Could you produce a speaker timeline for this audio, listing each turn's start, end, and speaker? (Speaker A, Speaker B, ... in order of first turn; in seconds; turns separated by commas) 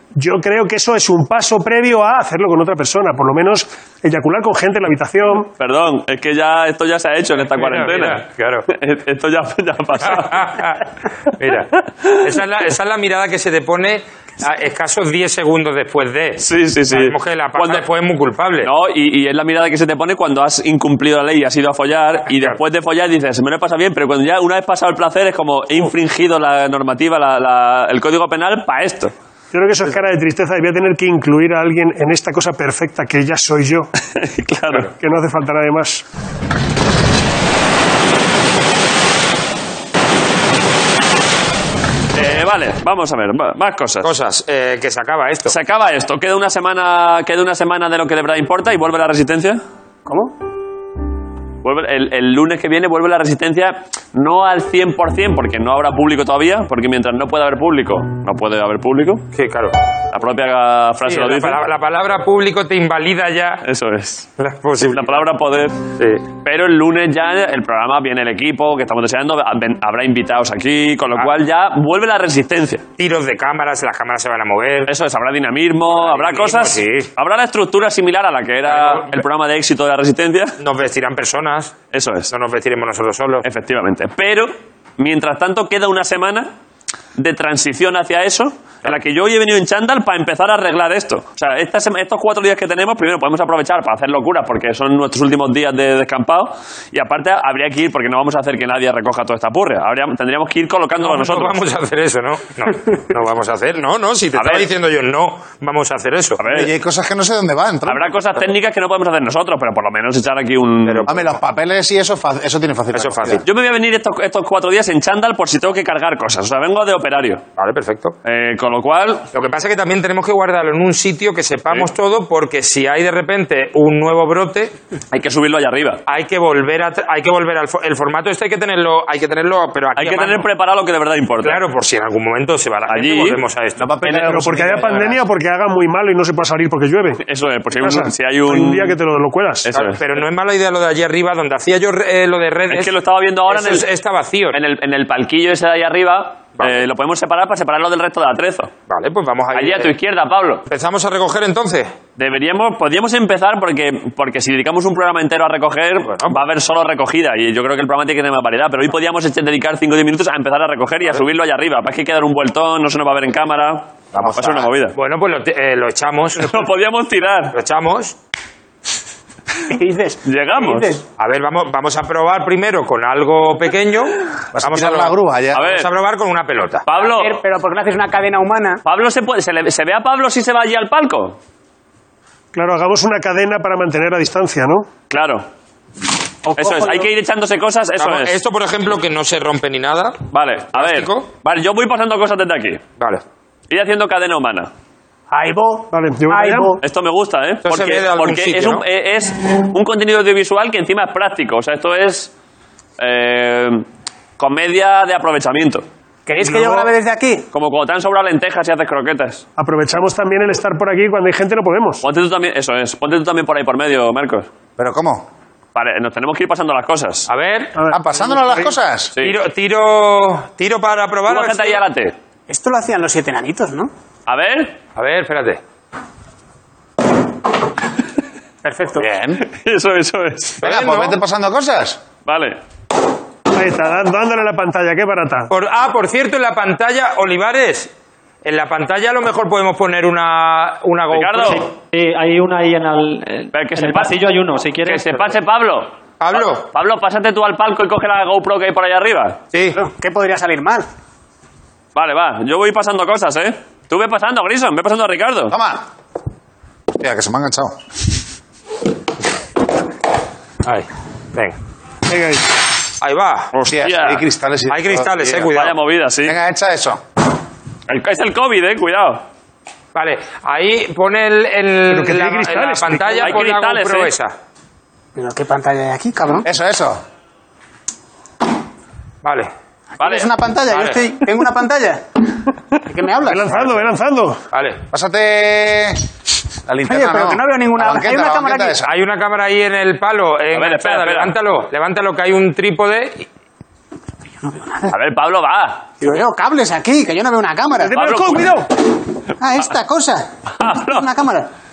Speaker A: 0.1-5.5, Speaker B: 5.6-10.5, Speaker C: 7.5-8.7, Speaker C: 10.0-18.7, Speaker B: 16.4-17.9, Speaker B: 18.6-29.1, Speaker A: 29.5-33.9, Speaker B: 34.0-34.9, Speaker A: 34.7-36.0, Speaker B: 42.1-44.1, Speaker C: 44.0-45.5, Speaker B: 45.5-49.6, Speaker D: 50.1-50.3, Speaker B: 51.6-59.3, Speaker C: 59.3-59.7, Speaker B: 60.1-61.6, Speaker C: 61.0-63.6, Speaker B: 63.6-64.3, Speaker C: 64.4-65.2, Speaker B: 64.9-65.8, Speaker C: 66.0-66.2, Speaker B: 66.4-72.8, Speaker C: 73.0-74.9, Speaker B: 74.9-80.6, Speaker C: 75.9-77.1, Speaker C: 78.7-79.2, Speaker C: 80.6-81.8, Speaker B: 81.9-82.3, Speaker C: 82.3-83.5, Speaker B: 83.4-86.5, Speaker B: 87.2-101.6, Speaker C: 101.0-106.4, Speaker B: 104.3-104.7, Speaker B: 106.4-106.7, Speaker E: 106.4-108.1, Speaker B: 107.9-111.1, Speaker C: 110.8-111.3, Speaker E: 111.1-113.4, Speaker C: 112.9-113.5, Speaker B: 113.4-117.4, Speaker C: 117.6-118.2, Speaker B: 118.2-119.3, Speaker C: 119.3-124.7, Speaker B: 125.1-126.0, Speaker C: 126.1-130.5, Speaker B: 130.0-131.6, Speaker C: 131.4-134.3, Speaker B: 132.9-133.4, Speaker E: 133.8-135.2, Speaker A: 134.2-137.2, Speaker B: 137.2-139.0, Speaker A: 137.7-139.7, Speaker B: 139.6-140.0, Speaker C: 139.7-143.0, Speaker B: 142.7-143.9, Speaker C: 143.5-144.6, Speaker B: 144.5-148.7, Speaker C: 148.9-149.9, Speaker B: 149.5-150.7, Speaker C: 150.7-151.9, Speaker B: 152.2-165.0, Speaker C: 156.0-156.4, Speaker C: 164.1-166.6, Speaker B: 166.4-167.6, Speaker C: 167.5-168.2, Speaker D: 169.7-171.0, Speaker B: 170.2-171.0, Speaker C: 171.2-176.8, Speaker E: 174.5-175.6, Speaker B: 175.5-175.9, Speaker B: 176.9-177.4, Speaker D: 176.9-178.8, Speaker B: 178.8-181.4, Speaker A: 182.5-184.9, Speaker B: 185.1-185.5, Speaker D: 186.4-187.1, Speaker B: 186.6-188.3, Speaker C: 188.0-190.2, Speaker B: 190.3-192.8, Speaker C: 190.7-191.3, Speaker B: 193.7-194.7, Speaker D: 195.3-196.8, Speaker A: 195.9-196.8, Speaker B: 196.8-202.3, Speaker C: 197.6-198.8, Speaker B: 203.0-203.9, Speaker B: 204.4-205.9, Speaker D: 206.3-207.5, Speaker A: 206.4-206.9, Speaker B: 207.5-209.4, Speaker A: 209.6-212.0, Speaker B: 212.0-214.5, Speaker E: 214.8-215.3, Speaker B: 215.8-217.3, Speaker C: 217.3-217.8, Speaker A: 217.8-218.0, Speaker E: 217.9-219.2, Speaker C: 219.2-221.8, Speaker B: 221.3-222.2, Speaker D: 222.5-223.9, Speaker B: 224.3-224.8, Speaker C: 225.0-225.6, Speaker D: 228.6-229.1, Speaker E: 229.0-229.4, Speaker B: 229.4-230.6, Speaker C: 230.6-231.2, Speaker E: 230.6-232.0, Speaker B: 232.3-232.6, Speaker A: 233.5-235.5, Speaker C: 235.5-237.9, Speaker C: 238.4-241.7, Speaker B: 241.1-241.7, Speaker F: 241.4-245.1, Speaker B: 243.5-244.2, Speaker B: 244.8-249.4, Speaker C: 246.2-246.7, Speaker C: 249.5-249.8, Speaker D: 249.8-250.9, Speaker B: 251.9-255.6, Speaker E: 255.5-255.9, Speaker E: 257.0-257.8, Speaker C: 260.6-261.6, Speaker A: 262.1-262.4, Speaker C: 263.0-263.5, Speaker B: 263.5-264.2, Speaker E: 263.7-265.6, Speaker C: 264.7-265.8, Speaker B: 265.5-266.4, Speaker E: 266.2-267.0, Speaker B: 267.9-269.2, Speaker C: 269.9-274.3, Speaker A: 271.9-273.3, Speaker B: 273.2-274.1, Speaker D: 275.2-276.5, Speaker E: 276.4-277.0, Speaker C: 279.2-279.5, Speaker D: 280.0-282.0, Speaker B: 280.0-280.3, Speaker C: 280.7-281.0, Speaker D: 282.9-283.7, Speaker A: 283.2-284.4, Speaker C: 284.5-284.8, Speaker E: 284.9-286.0, Speaker E: 286.7-288.9, Speaker D: 286.9-288.8, Speaker C: 288.8-293.3, Speaker B: 290.5-291.4, Speaker B: 294.9-295.9, Speaker D: 296.0-298.0, Speaker A: 297.8-298.7, Speaker B: 297.9-298.5, Speaker D: 299.4-301.5, Speaker B: 300.6-301.1